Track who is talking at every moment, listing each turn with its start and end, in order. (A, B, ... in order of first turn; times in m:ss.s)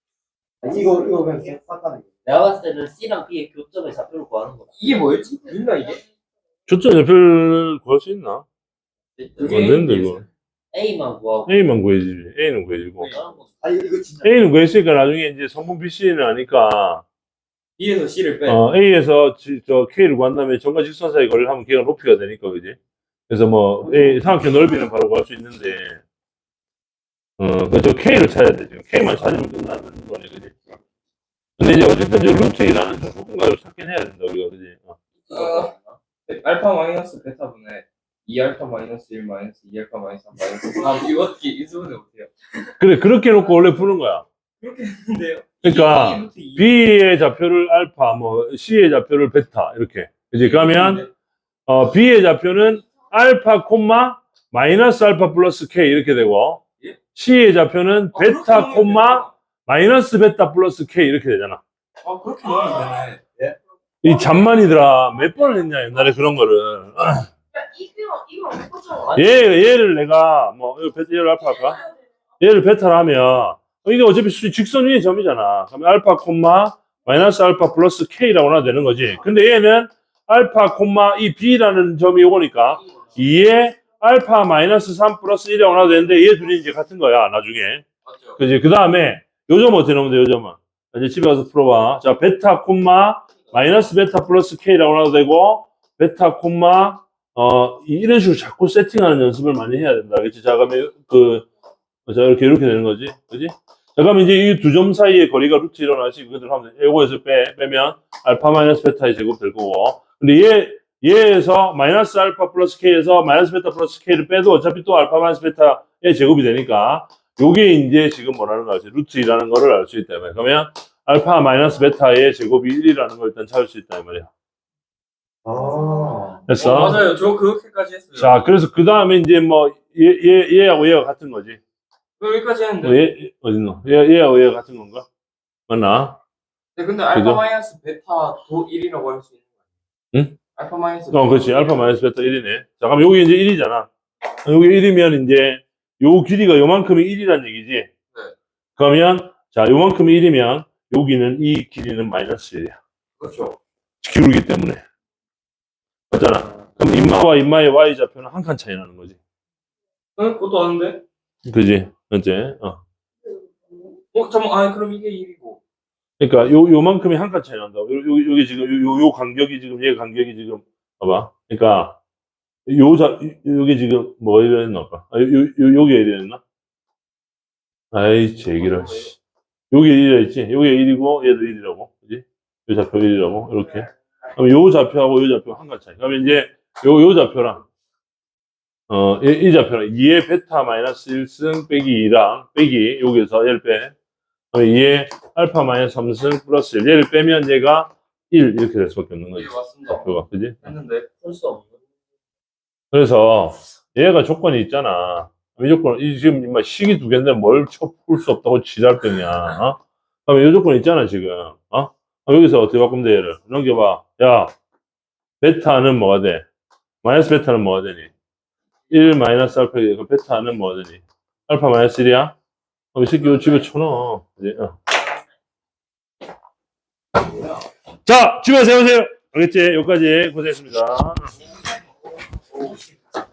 0:00.6-0:02.1 A
0:02.2-0:04.8 B
0:04.8-0:06.0 C
0:06.7-0:08.4 D
0:09.2-0:09.7 B
0:09.4-0:10.3 C
0:09.4-0:10.2 D
0:10.7-0:11.7 B
0:11.5-0:13.1 D
0:13.0-0:13.5 B
0:13.6-0:14.4 A
0:14.2-0:17.0 D
0:17.8-0:18.6 C
0:18.5-0:22.8 D
0:23.3-0:26.0 D
0:23.8-0:24.4 A
0:27.4-0:30.5 D
0:31.6-0:35.0 D
0:35.2-0:36.0 B
0:35.3-0:35.7 C
0:36.3-0:42.3 C
0:42.8-0:44.2 D
0:44.6-0:46.7 C
0:45.6-0:51.0 D
0:50.4-0:51.1 C
0:51.7-0:56.6 D
0:57.2-1:01.6 D
0:58.1-0:59.3 C
1:02.0-1:03.2 C
1:04.0-1:07.3 D
1:04.0-1:04.4 E
1:07.5-1:09.2 E
1:09.1-1:09.4 B
1:09.2-1:11.8 D
1:11.4-1:12.0 E
1:12.4-1:27.8 D
1:22.9-1:23.2 B
1:28.0-1:28.4 C
1:28.4-1:41.5 D
1:42.1-2:04.3 D
2:05.4-2:06.4 A
2:06.5-2:07.1 D
2:06.6-2:08.5 C
2:08.2-2:11.6 D
2:12.2-2:13.0 C
2:12.8-2:15.1 D
2:15.7-2:16.2 D
2:16.8-2:19.4 C
2:17.1-2:17.4 D
2:20.1-2:20.4 D
2:20.6-2:21.7 C
2:21.1-2:23.9 D
2:24.4-2:27.9 D
2:28.8-2:32.8 D
2:33.2-2:33.6 C
2:34.0-2:34.8 D
2:36.1-2:39.2 D
2:40.2-2:41.0 C
2:41.4-2:42.8 D
2:43.2-2:44.0 E
2:44.1-2:45.6 C
2:46.2-2:52.0 D
2:52.7-2:56.4 D
2:57.9-2:59.2 D
2:59.7-3:07.6 D
3:08.9-3:13.9 D
3:14.5-3:20.6 D
3:19.4-3:21.1 C
3:21.2-3:21.7 B
3:22.9-3:34.5 D
3:35.4-3:36.4 D
3:37.0-3:38.1 D
3:38.9-3:42.4 D
3:42.9-3:44.8 D
3:48.1-3:51.3 D